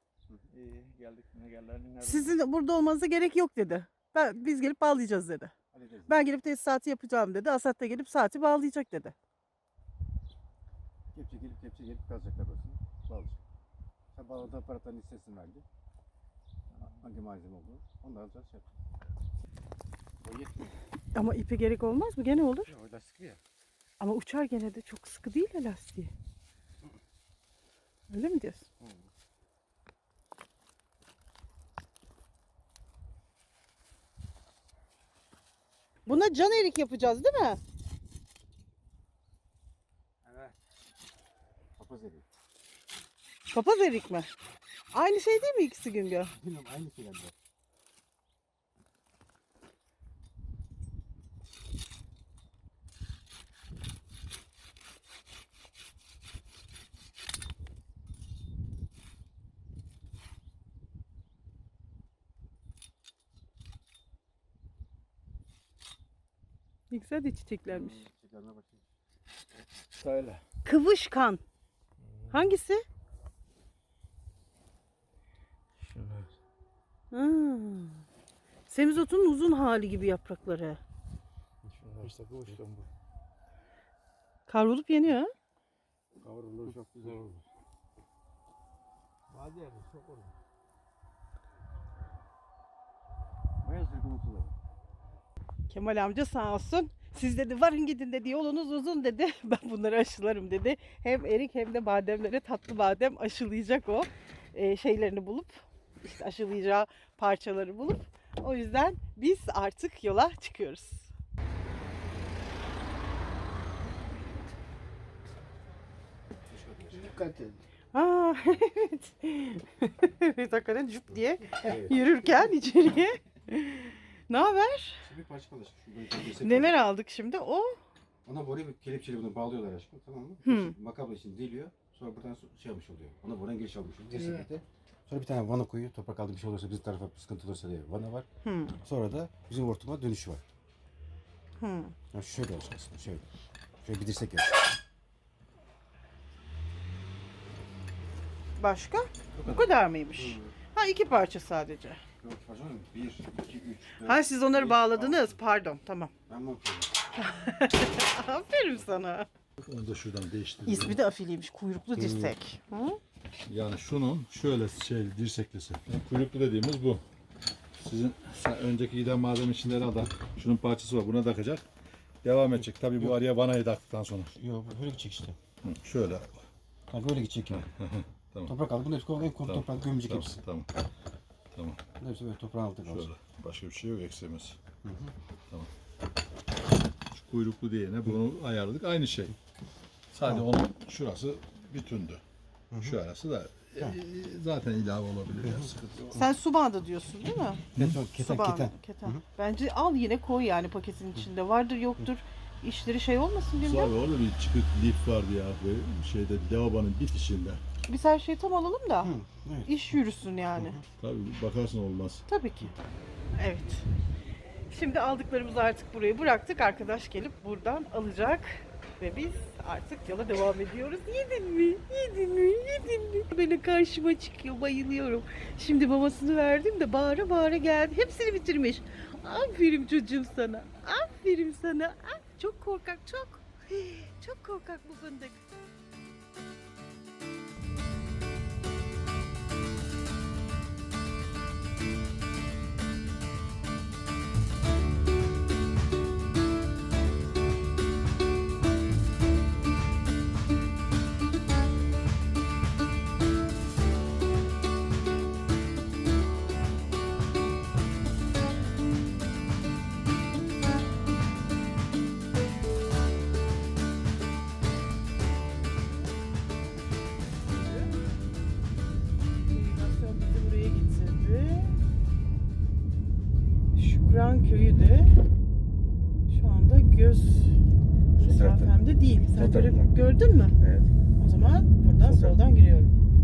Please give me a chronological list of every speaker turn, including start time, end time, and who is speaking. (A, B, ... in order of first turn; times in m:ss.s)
0:00.5-0:02.4 A
0:02.0-0:05.5 B
0:05.7-0:06.2 C
0:06.1-0:09.1 B
0:11.1-0:13.4 C
0:14.1-0:15.6 C
0:16.8-0:18.7 C
0:20.2-0:20.8 C
0:21.1-0:22.7 B
0:22.6-0:23.4 C
0:24.0-0:26.1 B
0:28.1-0:28.7 B
0:28.8-0:29.1 C
0:36.1-0:37.6 B
0:41.8-0:42.3 C
0:43.5-0:44.3 B
0:44.9-0:46.3 B
0:46.3-0:47.3 C
1:06.9-1:08.1 B
1:07.7-1:08.8 C
1:10.0-1:10.4 A
1:10.6-1:11.4 B
1:12.0-1:12.6 A
1:12.3-1:12.8 B
1:15.8-1:16.3 A
1:17.1-1:18.0 B
1:18.7-1:20.8 B
1:21.7-1:22.9 A
1:22.0-1:22.6 C
1:24.5-1:25.3 B
1:26.2-1:27.4 C
1:26.6-1:27.2 A
1:29.3-1:30.4 A
1:33.6-1:34.5 C
1:35.7-1:51.1 B
1:56.4-1:57.1 C
1:57.0-1:57.5 A
1:57.9-2:05.0 B
2:01.5-2:02.1 C
2:05.0-2:06.8 C
2:06.4-2:07.8 B
2:08.2-2:18.3 C
2:10.4-2:10.7 B
2:18.4-2:18.8 B
2:18.8-2:20.4 C
2:21.6-2:22.0 B
2:22.1-2:23.2 C
2:23.8-2:24.7 C
2:28.6-2:32.0 B
2:29.3-2:30.6 C
2:32.2-2:35.4 C
2:34.0-2:36.1 B
2:36.3-2:37.0 C
2:37.2-2:39.3 B
2:39.6-2:41.0 D
2:40.7-2:43.0 B
2:43.5-2:47.0 D
2:47.8-2:51.6 D
2:52.2-2:54.3 D
2:52.6-2:53.2 C
2:54.3-2:55.4 C
2:55.6-2:56.4 D
2:56.9-2:57.7 C
2:57.5-2:58.6 D
2:58.5-3:00.4 C
2:59.4-3:00.7 D
3:01.5-3:01.8 D
3:02.0-3:03.1 C
3:02.9-3:04.6 D
3:04.8-3:05.1 C
3:07.1-3:09.4 D
3:10.1-3:12.2 D
3:12.7-3:13.0 C
3:12.8-3:16.2 D
3:15.4-3:15.7 C
3:16.2-3:17.6 B
3:17.8-3:19.2 C
3:18.2-3:24.0 B
3:23.6-3:27.6 D
3:27.9-3:29.1 B
3:29.0-3:29.7 C
3:29.7-3:30.8 B
3:30.6-3:30.8 C
3:31.0-3:32.3 D
3:32.3-3:32.7 B
3:33.4-3:33.9 B
3:34.7-3:55.4 B
4:27.5-4:27.9 B
4:29.5-4:31.8 B
4:33.8-4:35.1 B
4:36.3-4:37.6 B
4:38.2-4:40.9 C
4:38.2-4:40.6 B
4:41.2-4:43.0 B
4:42.0-4:42.4 C